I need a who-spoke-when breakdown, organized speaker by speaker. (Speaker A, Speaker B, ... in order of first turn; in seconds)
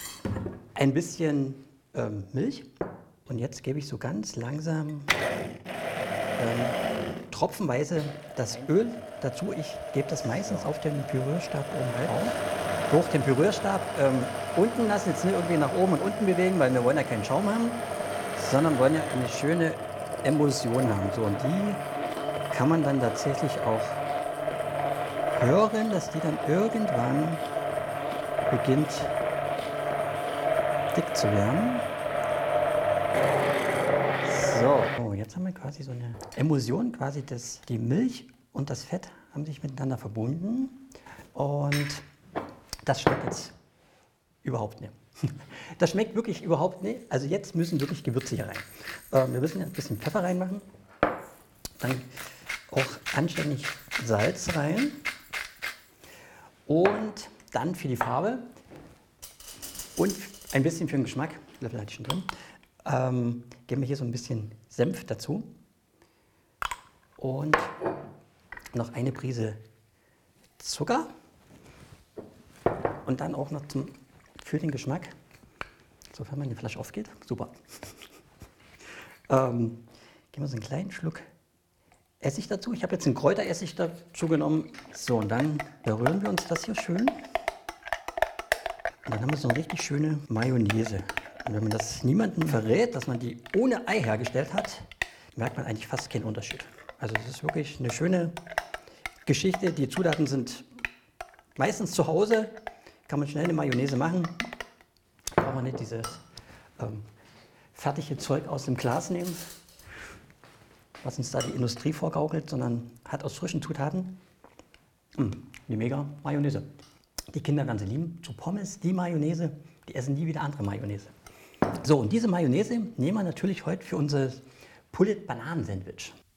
Speaker A: 0.8-2.7, 3.3-5.1, 6.4-6.8, 7.3-12.4, 12.9-21.8, 22.5-24.0, 25.4-27.4, 28.5-29.1, 30.9-31.9, 34.2-42.1, 42.9-43.5, 44.4-50.6, 51.8-52.1, 52.7-55.0, 56.7-58.5, 60.0-62.3, 62.8-65.6, 67.2-67.8, 68.7-69.6, 70.6-71.1, 73.0-75.1, 76.1-77.6, 79.3-81.3, 82.2-87.2, 89.0-98.3, 99.2-100.7, 101.6-102.6, 103.1-104.4, 105.4-106.2, 106.8-107.1, 107.7-109.4, 111.0-114.2, 115.2-116.7, 117.3-121.1, 121.8-126.2